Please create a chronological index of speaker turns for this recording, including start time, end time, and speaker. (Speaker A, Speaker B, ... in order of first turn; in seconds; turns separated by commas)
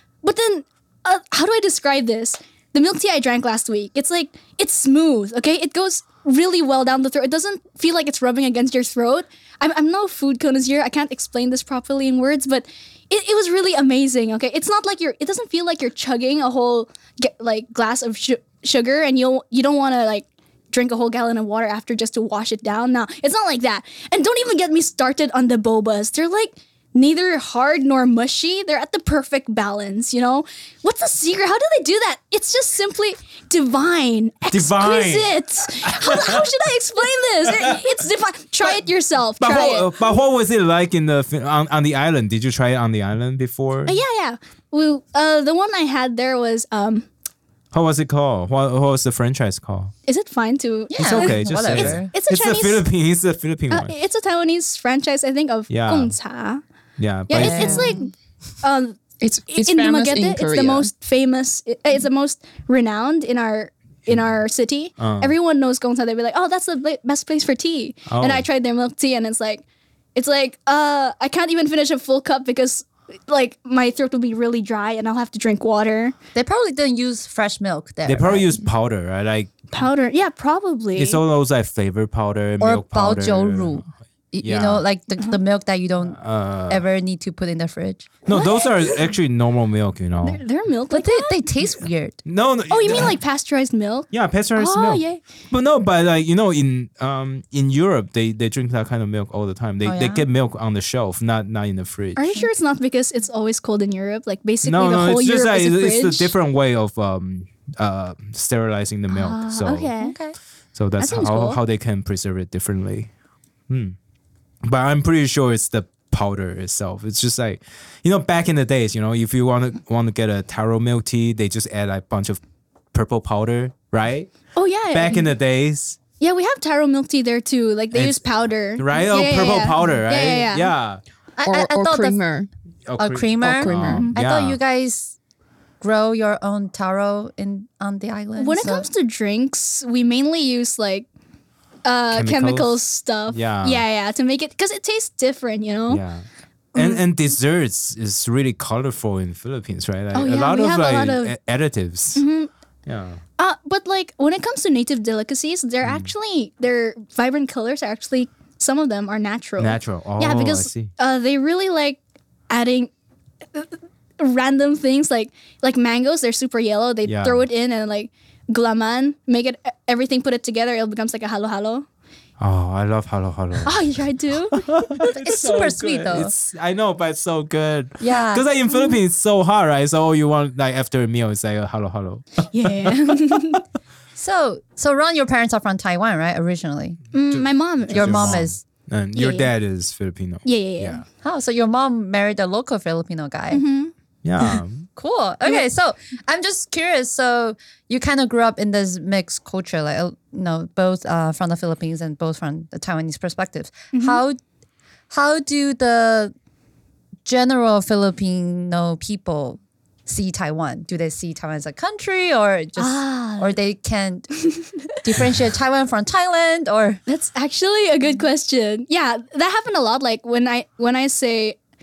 Speaker A: 0.2-40.0, Speaker B: 34.5-36.4, Speaker B: 39.4-44.0, Speaker A: 43.9-47.1, Speaker B: 47.7-49.9, Speaker A: 50.0-52.8, Speaker C: 50.9-52.1, Speaker B: 51.0-53.9, Speaker A: 53.7-56.6, Speaker B: 55.7-56.1, Speaker B: 57.0-57.9, Speaker A: 57.3-69.6, Speaker C: 57.3-58.1, Speaker D: 59.2-60.9, Speaker B: 65.0-65.3, Speaker B: 68.1-68.4, Speaker A: 70.1-76.1, Speaker C: 76.3-78.7, Speaker B: 78.0-79.7, Speaker A: 79.7-81.2, Speaker B: 81.0-83.8, Speaker C: 82.6-88.1, Speaker B: 84.4-84.8, Speaker B: 86.1-86.8, Speaker B: 88.2-90.4, Speaker A: 88.3-89.1, Speaker A: 90.2-91.5, Speaker C: 90.9-92.2, Speaker B: 92.2-93.1, Speaker A: 92.7-95.2, Speaker B: 94.1-102.2, Speaker C: 99.8-100.2, Speaker A: 102.2-106.3, Speaker B: 104.6-109.9, Speaker A: 109.1-110.2, Speaker C: 110.0-110.3, Speaker B: 110.7-113.1, Speaker A: 111.0-111.6, Speaker B: 113.7-114.0, Speaker B: 114.6-122.4, Speaker B: 122.9-124.3, Speaker A: 124.5-125.3, Speaker B: 124.9-126.0, Speaker A: 126.2-130.7, Speaker B: 127.9-131.0, Speaker C: 131.3-132.2, Speaker D: 131.4-132.5, Speaker B: 132.8-134.6, Speaker C: 133.0-135.1, Speaker D: 133.4-134.0, Speaker C: 135.8-138.9, Speaker A: 138.4-141.1, Speaker A: 141.8-146.0, Speaker B: 142.1-143.8, Speaker B: 145.9-152.2, Speaker A: 146.7-147.0, Speaker A: 150.1-151.3, Speaker A: 152.2-152.5, Speaker B: 152.8-153.2, Speaker A: 153.4-162.0, Speaker B: 159.6-160.9, Speaker A: 162.5-162.9, Speaker A: 163.5-171.8, Speaker B: 167.1-167.4, Speaker B: 172.4-173.8, Speaker A: 173.6-175.1, Speaker B: 174.5-182.2, Speaker C: 175.0-176.3, Speaker C: 178.0-178.4, Speaker A: 182.5-183.6, Speaker C: 184.2-187.0, Speaker A: 187.1-188.4, Speaker B: 187.3-191.0, Speaker C: 187.9-188.6, Speaker A: 189.1-189.5, Speaker A: 190.4-191.0, Speaker C: 191.2-193.6, Speaker A: 193.5-193.9, Speaker B: 194.2-194.9, Speaker C: 194.9-204.4, Speaker A: 203.9-204.2, Speaker C: 205.1-206.3, Speaker C: 207.2-217.0, Speaker A: 212.8-213.6, Speaker A: 217.1-221.6